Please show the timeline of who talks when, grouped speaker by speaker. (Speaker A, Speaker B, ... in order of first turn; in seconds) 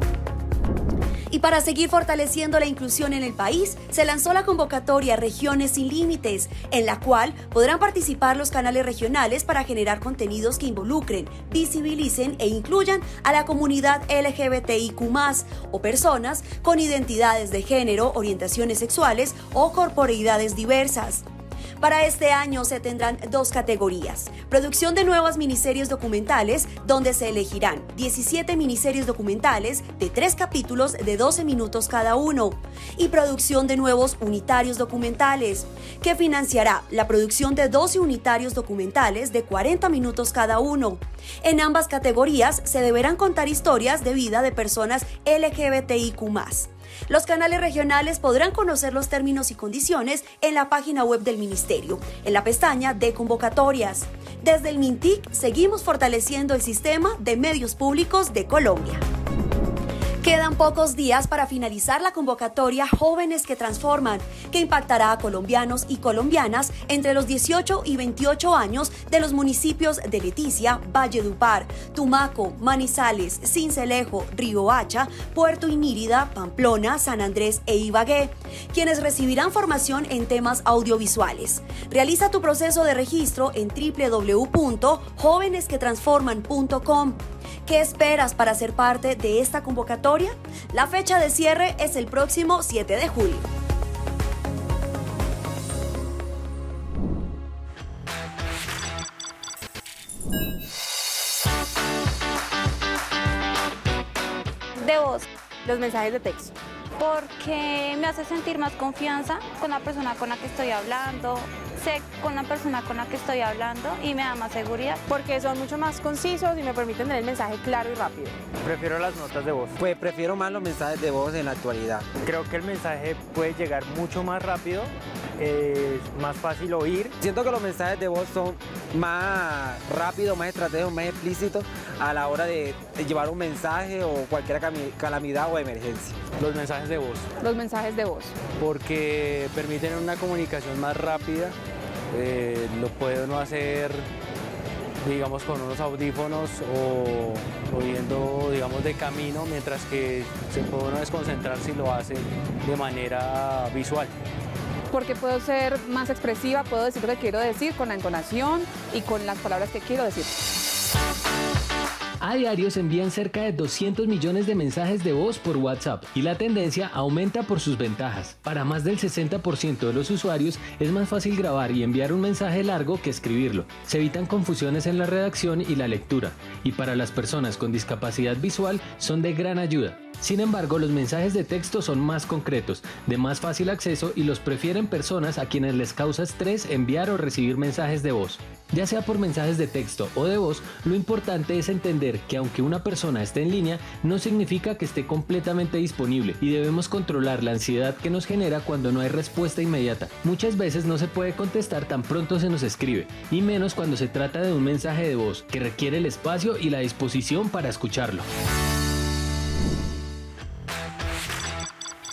Speaker A: 1.3-21.3, 21.8-59.0, 60.2-93.5
Speaker B: 104.8-105.3, 107.0-115.0
Speaker C: 105.7-106.5, 115.1-118.4, 137.4-138.3, 154.9-160.3
Speaker D: 118.6-119.7, 122.2-127.1, 136.4-137.3, 138.6-141.6, 142.1-144.1, 145.0-154.1
Speaker E: 119.8-122.1, 127.1-136.2
Speaker F: 162.2-208.3